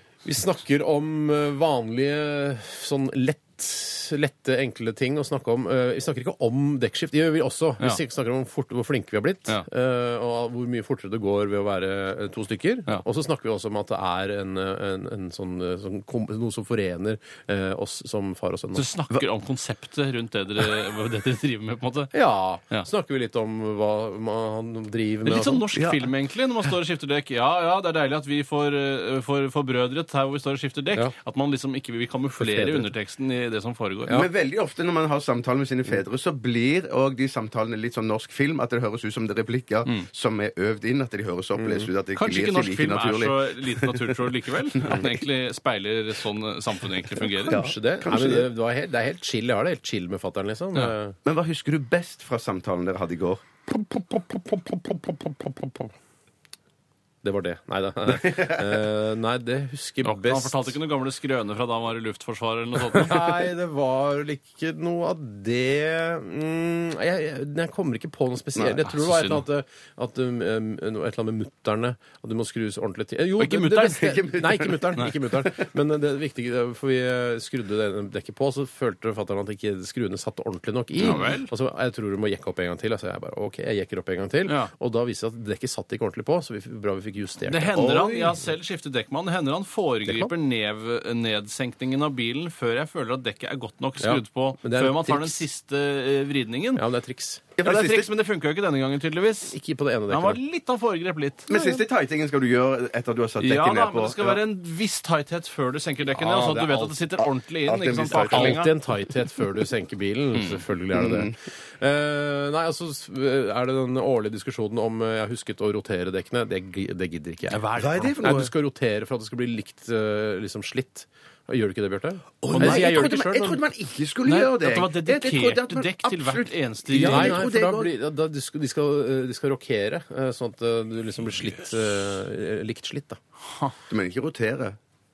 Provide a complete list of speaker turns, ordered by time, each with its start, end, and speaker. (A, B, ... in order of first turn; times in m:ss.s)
0:00.2-0:18.8 A
0:18.8-0:22.1 B
0:22.1-0:25.7 A
0:25.2-0:34.2 B
0:25.8-0:26.1 C
0:32.4-0:32.9 A
0:34.1-0:44.2 C
0:41.6-0:41.9 A
0:42.2-0:47.6 B
0:44.8-0:45.1 C
0:47.4-0:48.5 C
0:47.5-0:51.2 A
0:51.2-0:53.4 C
0:53.7-0:55.9 A
0:57.2-1:00.8 A
0:58.2-0:58.7 C
1:00.0-1:03.3 B
1:02.9-1:27.8 A
1:08.8-1:09.4 B
1:13.4-1:14.1 B
1:14.0-1:15.7 C
1:21.0-1:21.5 B
1:21.0-1:21.4 C
1:27.5-1:36.8 B
1:27.7-1:28.4 C
1:30.1-1:30.3 A
1:34.0-1:35.5 A
1:36.8-1:37.4 A
1:37.6-1:38.1 C
1:37.6-1:39.6 B
1:39.5-1:40.4 A
1:40.1-1:41.5 B
1:41.5-1:44.4 C
1:43.4-1:48.7 B
1:46.1-1:48.6 C
1:48.1-2:03.6 A
1:50.4-1:50.6 B
1:50.9-1:51.3 C
1:57.5-1:58.1 B
1:57.8-1:58.5 C
2:02.4-2:07.9 C
2:02.5-2:03.1 B
2:04.3-2:07.4 B
2:07.0-2:13.2 A
2:13.9-2:14.8 C